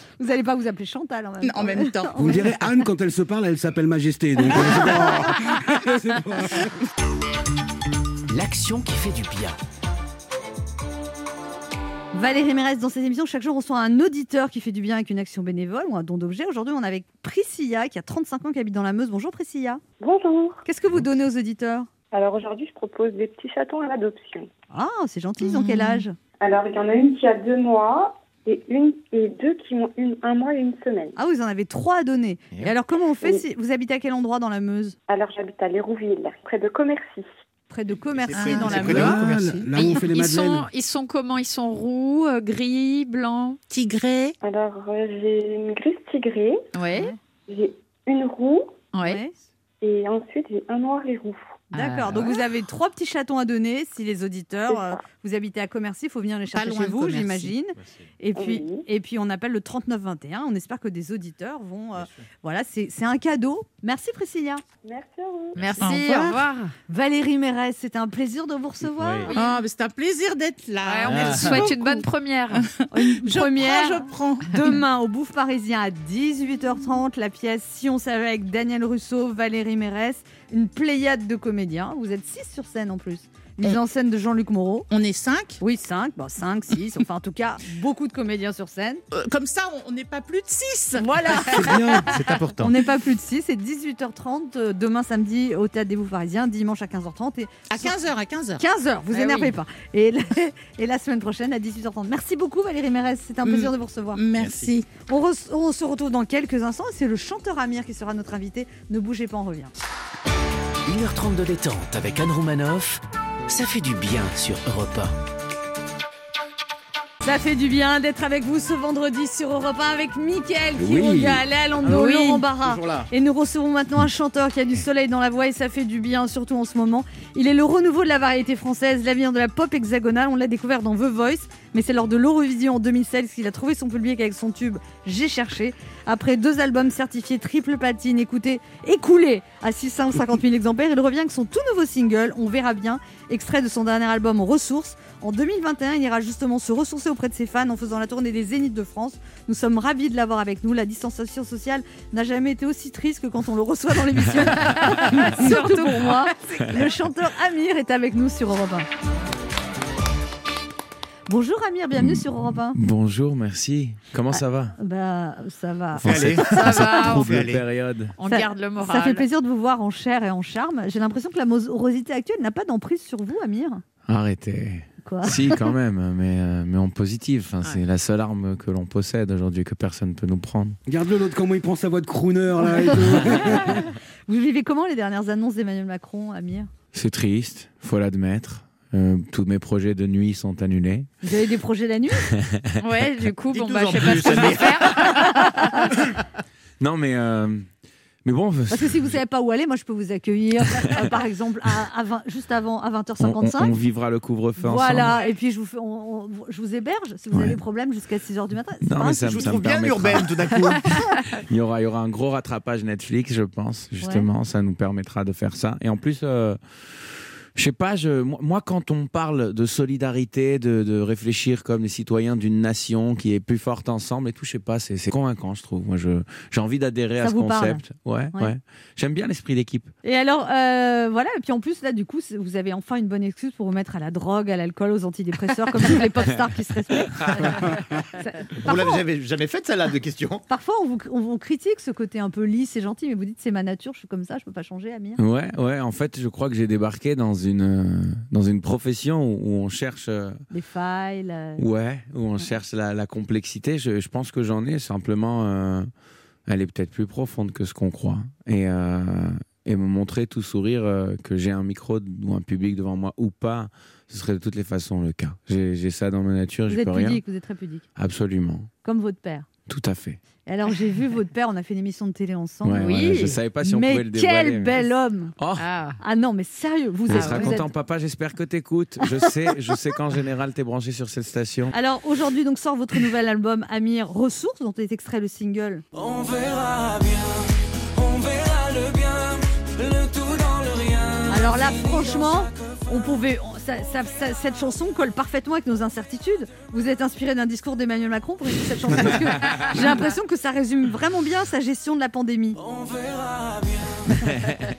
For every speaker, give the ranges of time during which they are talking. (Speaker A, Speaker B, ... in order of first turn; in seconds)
Speaker A: 0.2-2.5, 12.1-19.8, 20.6-21.9, 24.7-26.1, 31.1-35.0, 37.7-39.2, 49.0-49.3, 51.7-64.6, 66.9-69.3, 72.9-84.9, 85.6-89.0, 91.0-91.8, 92.6-97.9, 98.6-104.2, 105.1-109.7, 117.2-158.9, 161.3-162.8, 164.8-166.1, 166.7-167.0, 168.3-173.8, 175.0-175.6, 182.9-186.7, 191.2-192.3, 195.4-195.8, 198.7-203.7, 204.6-209.6, 214.0-214.3, 227.2-227.8, 230.0-239.0, 240.5-245.2, 250.5-251.6, 266.7-267.9, 268.8-269.5, 270.4-275.3, 276.0-277.7, 281.7-285.8, 291.3-302.6
Speaker B: 1.4-2.2, 25.4-26.0, 38.4-39.6, 43.7-44.4, 56.5-57.5, 65.8-66.4, 69.3-74.7, 84.9-85.6, 89.1-91.1, 97.7-98.6, 103.4-104.9
Speaker C: 2.2-6.7, 38.7-40.7, 91.6-92.1, 120.8-121.4, 180.9-183.8
Speaker D: 8.3-9.6, 110.8-115.1
Speaker E: 20.0-20.6, 22.1-24.5, 26.4-31.1, 35.1-37.3, 44.4-46.6, 47.5-48.8, 49.8-51.6, 54.7-55.0, 58.3-58.8, 64.8-65.6
Speaker F: 38.2-39.6, 69.0-69.3, 71.0-71.7, 91.8-92.7, 104.4-104.7, 122.5-123.1, 166.0-167.6, 193.5-195.4, 209.2-211.1, 238.6-240.4
Speaker G: 39.7-43.6, 46.7-47.1, 48.9-49.2, 51.7-52.4, 65.5-66.7, 69.3-69.6, 70.8-72.7, 99.1-99.5, 121.9-122.4, 154.7-156.6, 166.4-167.4, 168.2-169.2, 192.8-195.8, 272.8-273.4, 275.6-276.0, 277.1-277.6
Speaker H: 156.6-156.9, 162.0-164.8, 166.0-168.1, 174.1-180.8, 186.9-191.1, 192.2-192.9, 196.8-197.7, 198.2-199.2, 200.7-201.1, 203.2-205.2, 207.3-207.6, 208.8-216.6, 217.6-229.9, 237.1-237.3, 245.2-250.4, 251.6-255.9, 256.5-267.2, 267.9-268.7, 269.7-270.2, 272.6-275.7, 277.1-281.7, 304.2-304.7
Speaker I: 285.9-292.9, 302.6-304.3